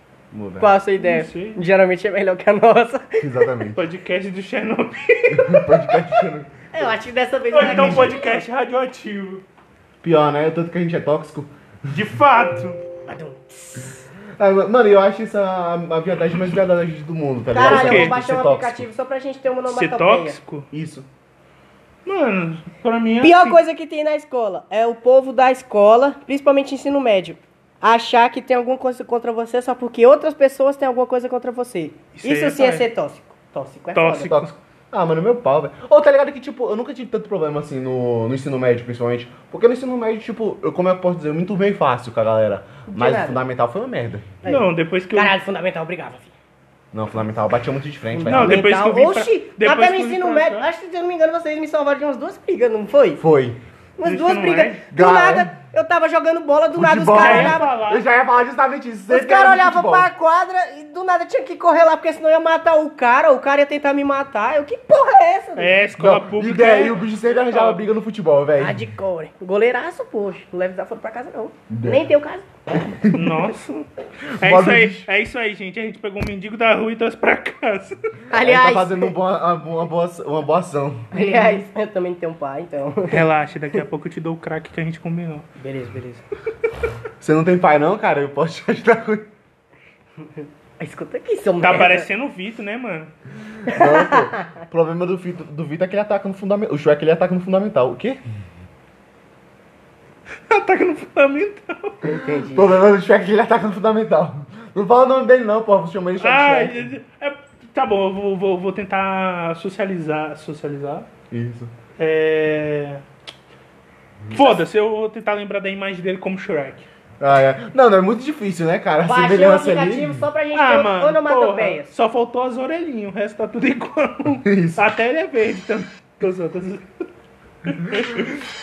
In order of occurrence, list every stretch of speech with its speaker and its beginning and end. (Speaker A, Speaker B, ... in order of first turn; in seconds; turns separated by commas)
Speaker A: 0.3-0.7, Speaker B: 0.6-3.3, Speaker C: 1.0-1.6, Speaker A: 3.2-3.8, Speaker C: 3.7-5.8, Speaker A: 5.3-6.5, Speaker B: 6.7-8.4, Speaker C: 7.5-9.4, Speaker A: 7.7-8.1, Speaker A: 10.0-12.0, Speaker C: 11.9-12.8, Speaker B: 13.1-14.0, Speaker A: 14.4-18.8, Speaker B: 17.5-20.4, Speaker C: 17.6-18.1, Speaker C: 19.7-20.7, Speaker A: 20.7-21.1, Speaker C: 22.1-23.6, Speaker B: 23.2-34.4, Speaker C: 32.1-32.9, Speaker C: 33.9-34.5, Speaker A: 34.3-44.3, Speaker B: 42.9-43.4, Speaker B: 44.4-46.3, Speaker C: 44.5-45.3, Speaker A: 46.9-48.6, Speaker B: 48.1-53.2, Speaker C: 48.3-50.6, Speaker A: 53.2-53.6, Speaker B: 54.0-57.7, Speaker C: 54.0-54.8, Speaker A: 54.9-55.5, Speaker A: 56.7-60.1, Speaker C: 57.1-58.0, Speaker B: 59.1-65.8, Speaker C: 65.5-67.8, Speaker A: 66.0-68.8, Speaker B: 68.6-72.5, Speaker A: 71.7-72.0, Speaker A: 72.7-73.4, Speaker C: 73.1-78.0, Speaker A: 74.2-75.1, Speaker B: 78.3-79.1, Speaker A: 78.3-81.1, Speaker B: 81.1-83.2, Speaker C: 81.1-81.6, Speaker C: 83.1-85.5, Speaker B: 85.6-86.2, Speaker A: 87.2-89.3, Speaker B: 90.8-92.1, Speaker C: 91.6-93.1, Speaker A: 93.6-98.2, Speaker B: 93.7-94.4, Speaker C: 100.5-102.1, Speaker B: 102.0-102.7, Speaker A: 102.5-106.8, Speaker C: 106.2-111.1, Speaker A: 111.3-111.7, Speaker C: 112.0-113.0, Speaker C: 114.3-116.9, Speaker A: 117.2-120.2, Speaker B: 119.0-121.9, Speaker C: 120.5-126.8, Speaker A: 124.4-124.9, Speaker C: 127.7-128.4